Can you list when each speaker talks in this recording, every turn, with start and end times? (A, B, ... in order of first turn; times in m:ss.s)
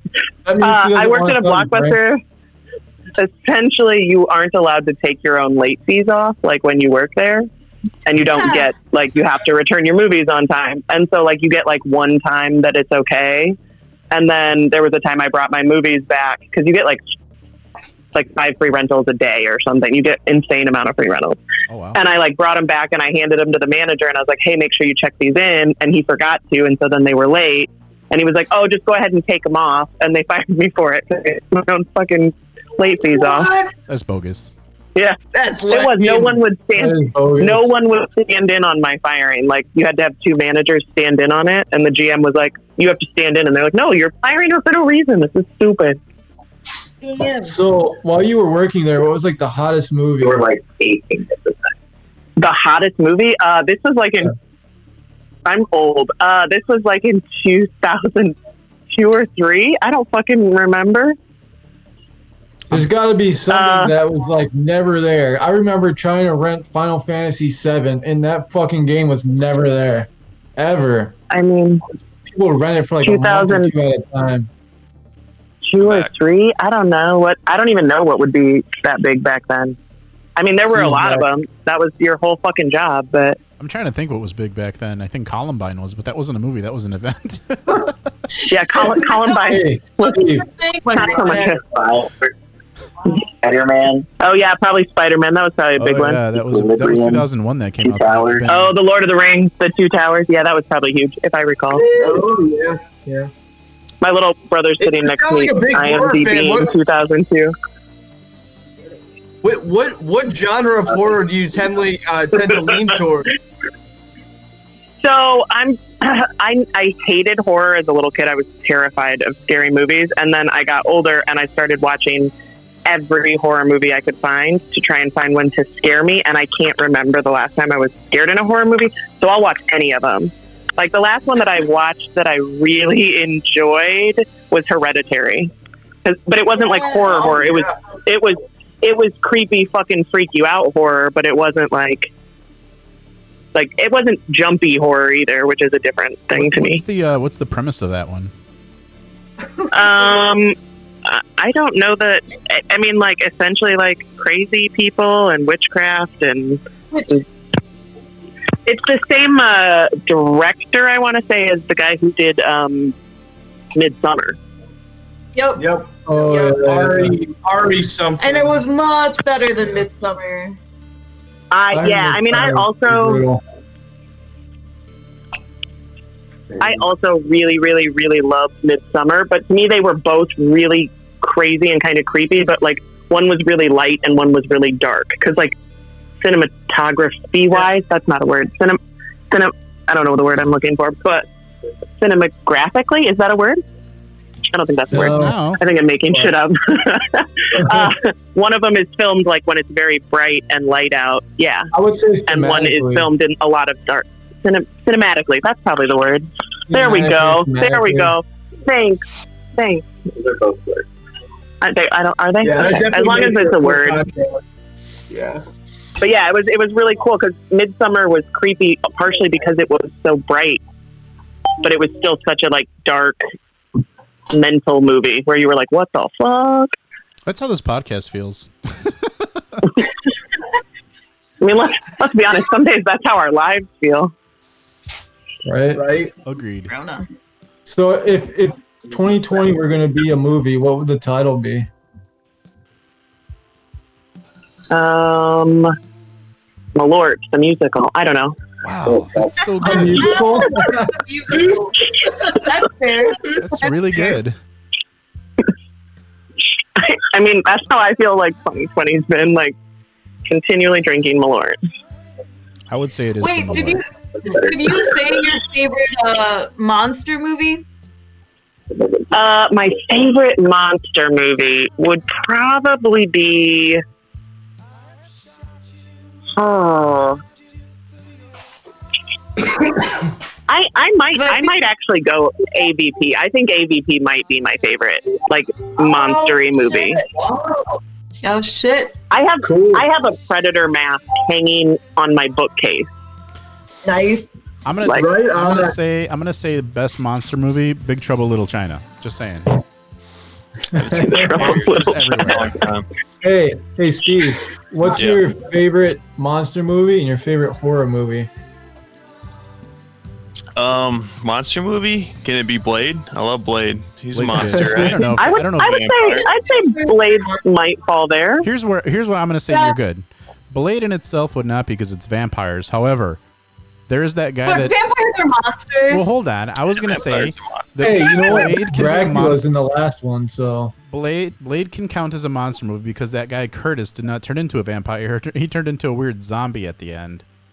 0:00.4-0:02.0 A
0:00.6-0:02.2 B
0:03.2-0:07.5 B
0:08.1-0:13.6 B
0:08.3-0:08.7 C
0:14.1-0:17.0 B
0:18.1-0:21.4 B
0:21.7-0:22.0 D
0:22.0-0:33.5 B
0:33.0-0:33.7 E
0:33.9-0:34.6 D
0:35.0-0:46.0 B
0:35.3-0:36.4 E
0:36.8-0:37.7 A
0:47.0-0:47.6 C
0:47.4-0:50.5 A
0:52.4-0:54.3 B
0:55.5-0:58.4 B
0:58.9-1:01.2 B
1:02.7-1:11.1 A
1:03.5-1:04.0 B
1:11.3-1:11.8 B
1:12.2-1:14.5 A
1:13.0-1:13.7 B
1:15.7-1:19.8 B
1:15.8-1:16.1 F
1:20.4-1:23.4 B
1:20.6-1:21.3 A
1:23.6-1:28.0 D
1:28.5-1:30.3 B
1:28.8-1:31.6 C
1:29.5-1:30.5 A
1:30.9-1:32.1 B
1:33.4-1:36.2 B
1:35.8-1:38.8 D
1:38.4-1:42.0 B
1:41.7-1:43.3 E
1:44.0-1:47.5 B
1:44.8-1:46.7 E
1:49.4-1:53.3 E
1:55.0-2:02.3 B
2:02.9-2:15.5 B
2:16.0-2:22.1 B
2:16.5-2:17.1 C
2:17.1-2:17.8 E
2:23.5-2:26.8 B
2:26.3-2:28.3 D
2:29.6-2:30.2 C
2:29.7-2:30.6 B
2:31.1-2:36.6 B
2:36.9-2:37.2 C
2:38.7-2:43.0 B
2:43.8-2:44.4 B
2:45.4-2:45.6 C
2:45.6-2:46.0 E
2:46.1-2:47.2 A
2:46.1-2:46.7 C
2:46.5-2:48.6 E
2:48.2-2:50.6 C
2:51.5-2:53.2 B
2:51.7-2:53.4 A
2:56.6-3:05.6 B
3:06.2-3:08.8 B
3:09.3-3:11.3 B
3:12.0-3:13.6 B
3:14.5-3:21.7 B
3:14.9-3:15.4 A
3:14.9-3:15.6 D
3:17.6-3:17.9 A
3:21.7-3:23.1 A
3:22.3-3:29.0 B
3:26.7-3:28.2 A
3:29.6-3:29.9 B
3:31.6-3:34.0 B
3:32.4-3:34.4 E
3:35.1-3:35.4 E
3:36.0-3:40.6 B
3:41.6-3:43.2 B
3:44.3-3:46.7 B
3:47.3-3:49.1 D
3:51.4-3:54.1 B
3:55.4-3:55.8 A
3:55.7-3:56.1 E
3:56.2-3:56.7 D
3:56.7-3:57.1 C
3:57.7-4:01.7 A
4:04.7-4:05.7 B
4:06.8-4:08.4 B
4:08.6-4:10.2 D
4:09.6-4:14.1 C
4:09.7-4:11.0 A
4:13.3-4:14.4 D
4:16.8-4:19.5 B
4:20.3-4:21.6 B
4:22.7-4:23.8 D
4:23.2-4:27.6 C
4:29.1-4:33.8 B
4:36.4-4:37.2 B
4:40.5-4:47.0 B
4:41.1-4:41.6 C
4:45.8-4:47.6 C
4:48.2-4:49.0 C
4:49.1-4:52.9 B
4:49.4-4:49.9 E
4:53.8-4:54.4 C
4:54.6-4:59.6 D
4:54.8-4:55.1 B
4:54.9-4:55.8 E
5:00.7-5:02.9 F
5:00.8-5:01.4 A
5:00.9-5:02.6 B
5:01.4-5:02.6 D
5:03.2-5:08.3 A
5:04.9-5:05.3 F
5:10.6-5:15.0 F
5:14.1-5:15.9 D
5:14.4-5:15.1 A
5:15.1-5:18.5 B
5:15.6-5:16.3 F
5:16.0-5:17.4 C
5:18.4-5:23.2 D
5:19.5-5:19.8 C
5:23.9-5:24.8 D
5:24.4-5:26.2 C
5:25.9-5:29.4 D
5:26.8-5:27.7 F
5:27.8-5:30.7 A
5:28.2-5:28.4 C
5:30.9-5:37.2 D